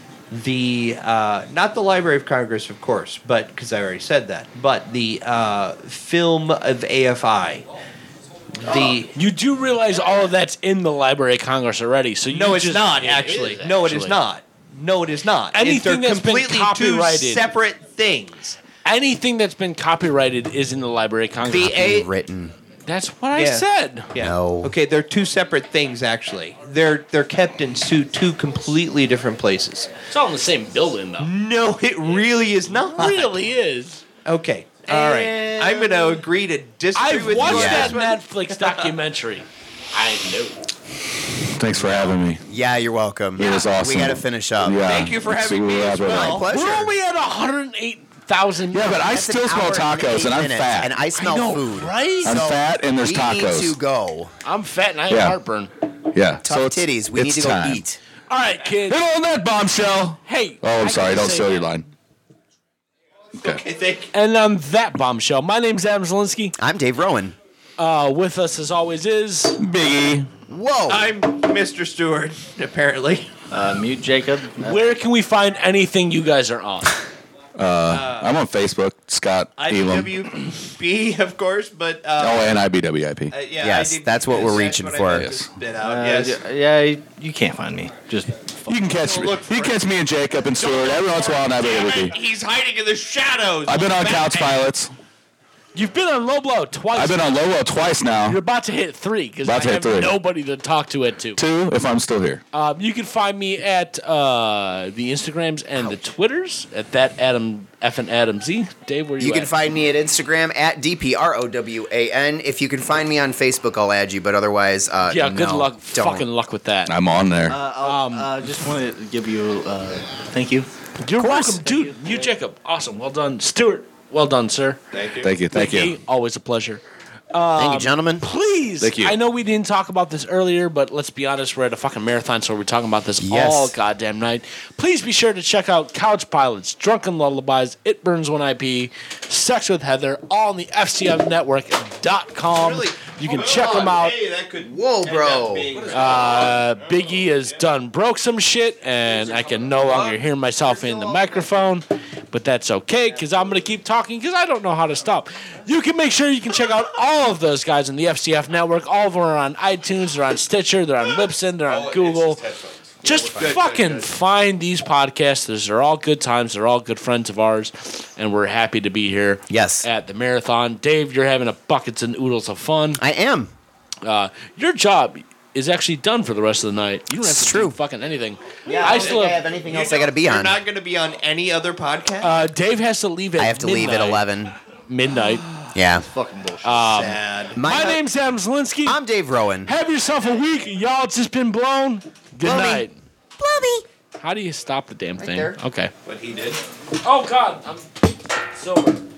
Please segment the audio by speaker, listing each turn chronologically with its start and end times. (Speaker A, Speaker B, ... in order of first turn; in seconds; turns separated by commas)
Speaker A: 0.3-7.7, Speaker A: 8.6-9.1, Speaker B: 8.7-14.2, Speaker A: 12.3-18.6, Speaker B: 15.5-17.4, Speaker B: 18.8-21.8, Speaker A: 21.4-22.1, Speaker C: 21.5-22.5, Speaker B: 22.9-24.1, Speaker A: 23.3-29.9, Speaker C: 24.2-24.7, Speaker B: 30.1-31.3, Speaker A: 31.2-33.3, Speaker B: 32.9-34.0, Speaker A: 34.2-38.9, Speaker B: 34.9-35.5, Speaker D: 35.1-36.2, Speaker B: 36.9-40.6, Speaker C: 37.4-38.0, Speaker E: 41.5-42.4, Speaker C: 41.7-44.8, Speaker E: 43.4-46.4, Speaker A: 44.8-46.4, Speaker C: 46.0-46.9, Speaker B: 46.4-49.0, Speaker E: 48.7-50.9, Speaker C: 48.8-54.3, Speaker B: 51.1-52.4, Speaker E: 52.2-53.8, Speaker B: 54.4-55.7, Speaker E: 55.1-55.4, Speaker E: 56.1-57.8, Speaker C: 56.4-58.0, Speaker B: 58.3-59.0, Speaker E: 58.9-61.8, Speaker B: 60.2-61.7, Speaker E: 63.4-63.6, Speaker A: 63.4-64.1, Speaker B: 64.1-66.5, Speaker C: 66.6-67.3, Speaker B: 67.8-69.5, Speaker E: 69.6-70.3, Speaker C: 70.5-71.1, Speaker A: 70.9-73.3, Speaker D: 73.5-74.9, Speaker B: 74.6-77.0, Speaker E: 77.5-80.3, Speaker A: 77.9-78.4, Speaker A: 79.6-82.6, Speaker E: 82.2-83.3, Speaker A: 83.3-86.4, Speaker C: 83.6-85.3, Speaker E: 85.1-85.5, Speaker D: 85.8-88.5, Speaker E: 88.7-92.2, Speaker A: 88.9-89.8, Speaker A: 90.6-94.6, Speaker E: 93.7-94.9, Speaker B: 95.7-97.2, Speaker E: 96.9-98.4, Speaker B: 98.3-101.4, Speaker E: 99.4-100.2, Speaker E: 101.4-102.4, Speaker B: 102.5-109.5, Speaker C: 109.2-116.2, Speaker B: 115.1-116.9, Speaker E: 116.9-117.6, Speaker D: 117.5-120.7, Speaker B: 117.8-118.3, Speaker B: 121.0-124.8, Speaker C: 121.2-121.6, Speaker A: 124.9-125.3, Speaker E: 125.2-126.0, Speaker B: 125.5-144.2, Speaker C: 127.5-128.2, Speaker E: 128.8-129.2, Speaker C: 133.2-133.7, Speaker A: 142.5-147.2, Speaker C: 144.6-145.8, Speaker D: 145.8-146.4, Speaker B: 145.9-162.4, Speaker D: 149.8-151.5, Speaker A: 161.7-164.1, Speaker B: 163.0-173.0, Speaker D: 163.0-163.5, Speaker C: 169.5-169.8, Speaker C: 173.0-173.5, Speaker B: 174.0-179.4, Speaker C: 177.2-177.8, Speaker A: 178.7-182.3, Speaker D: 178.7-179.0, Speaker C: 178.7-180.6, Speaker B: 182.2-184.2, Speaker C: 183.4-184.6, Speaker B: 184.9-185.5, Speaker C: 185.7-186.0, Speaker D: 186.0-186.9, Speaker B: 186.6-189.0, Speaker A: 186.9-187.6, Speaker C: 187.5-188.0, Speaker C: 188.8-189.7, Speaker B: 189.6-192.9, Speaker C: 192.4-192.8, Speaker C: 193.4-193.8, Speaker B: 194.2-195.9, Speaker C: 195.2-195.6, Speaker A: 196.0-196.6, Speaker B: 197.0-197.9, Speaker B: 198.5-199.0